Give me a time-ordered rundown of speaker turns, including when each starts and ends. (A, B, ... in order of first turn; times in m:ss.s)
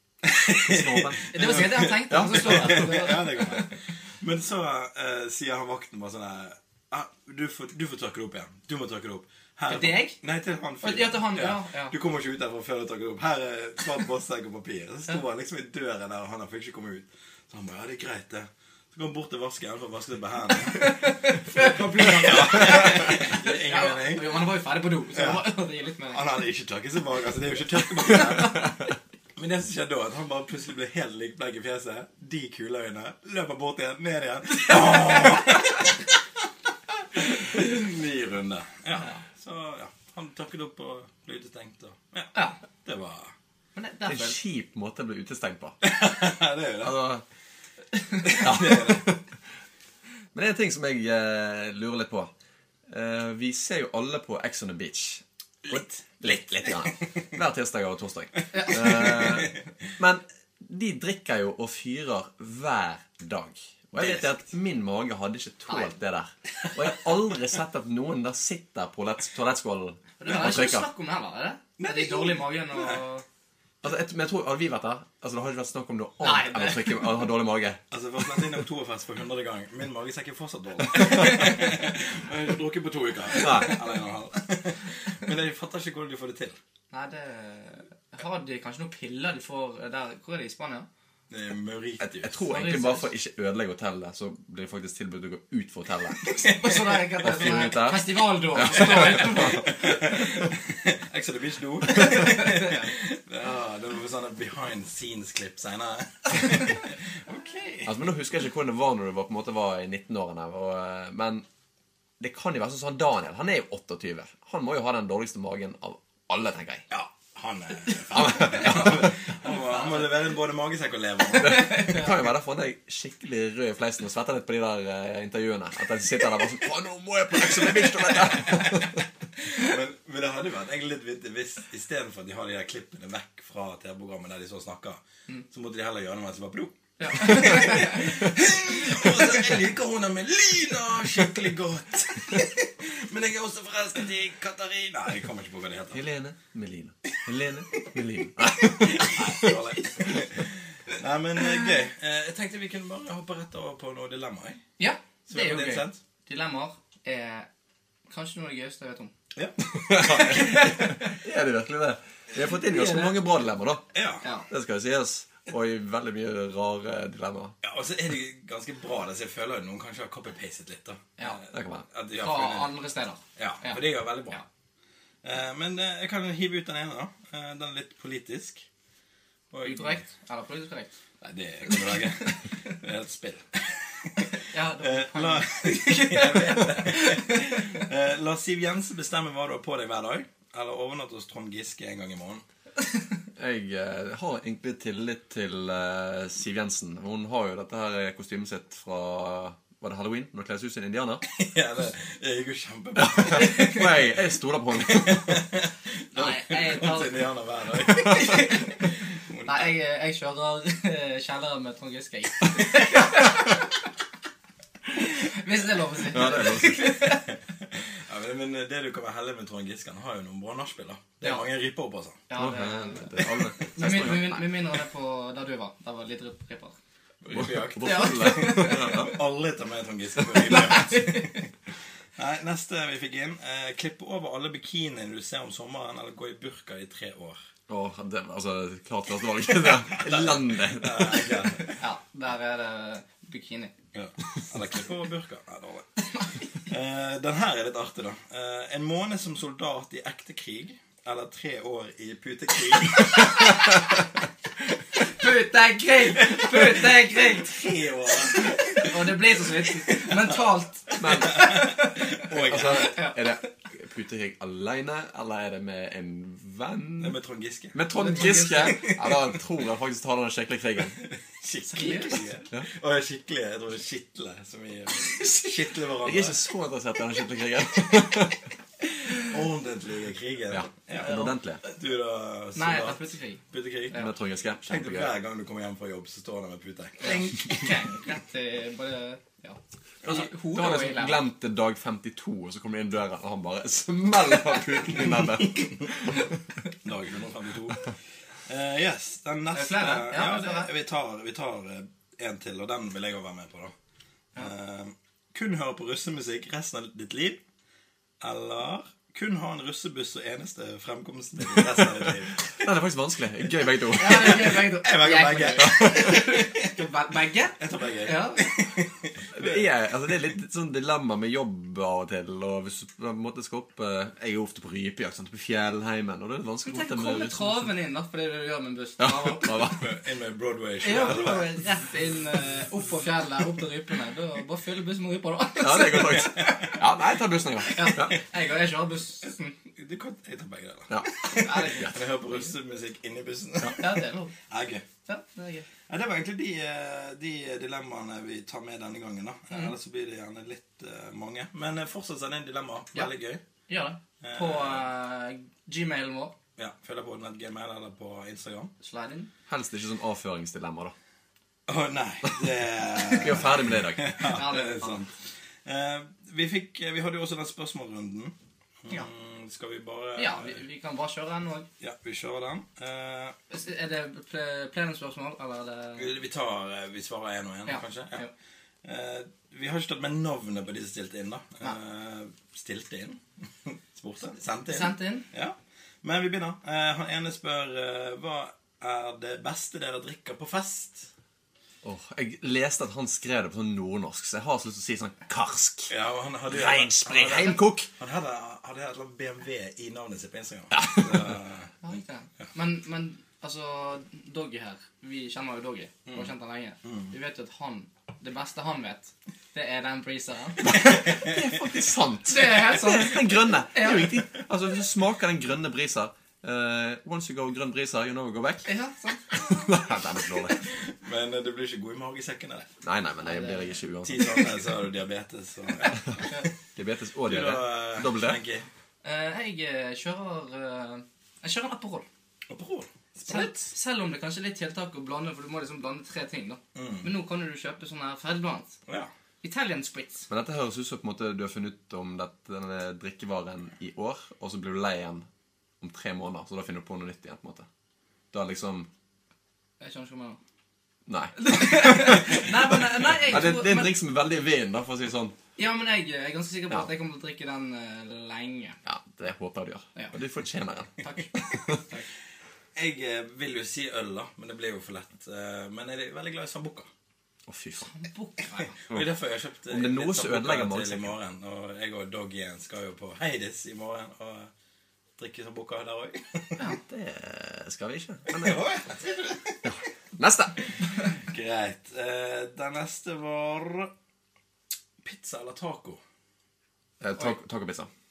0:00.2-0:24.4 A
0:00.5-0:02.9 B
0:01.3-0:03.7 C
0:09.7-0:10.2 C
0:10.8-0:11.9 C
0:20.6-0:26.2 C
0:25.1-0:25.6 A
0:26.1-0:28.7 A
0:29.4-0:35.9 A
0:37.1-0:43.3 A
0:43.8-0:44.4 C
0:44.1-0:45.8 B
0:45.8-0:47.0 A
0:46.8-0:47.2 B
0:48.2-0:49.2 A
0:48.3-0:49.2 B
0:50.3-0:52.3 B
0:52.9-1:10.9 B
0:55.6-0:57.1 A
0:58.5-0:59.0 C
0:58.9-0:59.6 A
1:03.9-1:04.3 A
1:10.2-1:13.2 C
1:11.8-1:13.0 A
1:13.8-1:17.8 B
1:16.2-1:17.0 C
1:17.9-1:26.6 A
1:23.4-1:23.8 B
1:26.9-1:30.9 C
1:31.3-1:32.4 A
1:32.0-1:36.4 B
1:32.5-1:33.1 C
1:36.4-1:37.0 A
1:36.4-1:39.8 C
1:37.2-1:39.8 B
1:38.8-1:47.9 A
1:41.9-1:42.9 C
1:47.8-1:51.4 B
1:52.2-1:56.8 B
1:56.9-2:01.9 A
1:58.1-1:59.1 B
1:59.4-2:00.1 C
2:01.4-2:09.0 B
2:01.4-2:02.1 C
2:08.3-2:08.9 A
2:09.4-2:26.0 A
2:17.0-2:18.2 C
2:25.9-2:30.2 B
2:28.6-2:34.6 A
2:34.8-2:37.5 C
2:35.3-2:36.0 A
2:38.1-2:39.1 C
2:39.3-2:41.0 A
2:39.7-2:43.8 B
2:40.1-2:41.0 C
2:42.5-2:43.2 C
2:43.9-2:44.2 A
2:44.2-2:44.5 C
2:44.5-2:47.5 B
2:47.6-2:52.8 A
2:51.5-2:51.8 B
2:52.2-2:54.4 C
2:53.4-2:54.4 A
2:55.2-2:58.6 A
2:59.5-3:00.0 A
2:59.6-3:01.0 C
3:01.2-3:12.4 A
3:01.7-3:02.0 C
3:04.3-3:07.8 C
3:13.4-3:21.2 B
3:21.2-3:24.1 A
3:23.0-3:25.4 B
3:23.4-3:23.8 C
3:24.8-3:29.7 A
3:26.1-3:27.2 C
3:27.9-3:28.8 C
3:29.4-3:33.8 C
3:34.9-3:37.2 C
3:36.0-3:37.0 B
3:37.1-3:42.2 A
3:42.3-3:46.7 C
3:42.4-3:44.5 B
3:47.2-3:51.5 A
3:47.3-3:49.2 B
3:47.8-3:49.1 C
3:50.4-3:51.4 C
3:52.2-3:57.4 A
3:57.7-4:01.4 B
3:59.9-4:01.8 A
4:01.8-4:03.7 C
4:03.9-4:05.9 A
4:06.2-4:06.4 C
4:06.6-4:13.7 A
4:13.4-4:13.8 C
4:15.0-4:17.5 C
4:16.2-4:23.1 A
4:18.3-4:23.2 C
4:21.0-4:21.6 B
4:22.3-4:27.2 B
4:27.0-4:29.3 A
4:27.7-4:31.0 B
4:27.9-4:28.8 C
4:31.0-4:36.4 A
4:31.7-4:32.2 C
4:36.0-4:38.4 B
4:39.1-4:44.1 A
4:40.5-4:41.6 B
4:41.0-4:41.3 C
4:42.6-4:44.1 C
4:43.9-4:45.1 B
4:44.6-4:47.8 A
4:47.0-4:51.2 C
4:50.0-4:56.4 B
4:56.8-4:57.9 A
4:58.5-5:03.7 A
4:59.5-5:00.7 C
5:04.4-5:07.4 A
5:08.2-5:12.5 A
5:12.0-5:14.7 B
5:13.9-5:18.6 C
5:14.1-5:16.8 A
5:15.6-5:16.2 B
5:17.6-5:19.6 A
5:19.3-5:27.7 B
5:26.6-5:29.8 C
5:29.0-5:29.8 B
5:29.7-5:31.5 A
5:30.8-5:36.8 C
5:35.6-5:38.2 B
5:36.4-5:36.8 A
5:37.6-5:39.5 C
5:39.8-5:44.8 A
5:40.9-5:41.9 B
5:41.2-5:42.3 C
5:43.8-5:44.3 C
5:45.0-5:45.6 C
5:45.9-5:53.4 A
5:53.7-5:56.3 C
5:54.2-5:54.9 A
5:56.6-5:58.7 A
5:58.8-5:59.3 C
5:59.5-6:00.9 B
6:01.7-6:05.1 A
6:03.1-6:04.1 B
6:04.2-6:05.0 C
6:05.6-6:10.6 A
6:10.2-6:11.7 C
6:11.8-6:13.4 A
6:13.5-6:16.1 C
6:16.0-6:18.2 A
6:17.7-6:18.3 C
6:18.8-6:31.1 A
6:24.7-6:25.2 C
6:31.8-6:35.9 B
6:35.9-6:41.7 A
6:36.5-6:37.9 B
6:40.7-6:41.4 B
6:41.8-6:50.9 C
6:46.8-6:47.1 A
6:50.6-6:58.7 B
6:52.3-6:54.2 C
6:58.6-6:59.8 C
6:59.3-7:00.6 B
7:00.6-7:02.7 A
7:02.8-7:04.5 B
7:03.2-7:03.7 C
7:04.0-7:06.4 A
7:06.1-7:06.5 C
7:06.8-7:08.4 B
7:07.3-7:08.7 A
7:09.0-7:12.0 C
7:12.5-7:13.7 A
7:13.2-7:18.8 C
7:16.7-7:17.1 A
7:19.4-7:20.3 C
7:20.3-7:25.3 B
7:25.8-7:27.7 B
7:28.3-7:28.9 B
7:29.8-7:30.4 C
7:31.1-7:35.4 B
7:31.4-7:33.9 C
7:35.6-7:38.8 C
7:38.8-7:41.8 B
7:41.0-7:42.1 C
7:42.8-7:46.9 A
7:47.4-7:47.9 B
7:47.8-7:48.8 C
7:48.8-7:54.5 A
7:49.7-7:51.1 B
7:55.2-7:56.6 A
7:56.6-7:58.6 B
7:58.3-7:59.7 A
7:59.6-8:00.6 B
8:01.1-8:03.9 A
8:05.0-8:06.0 A
8:07.0-8:07.9 B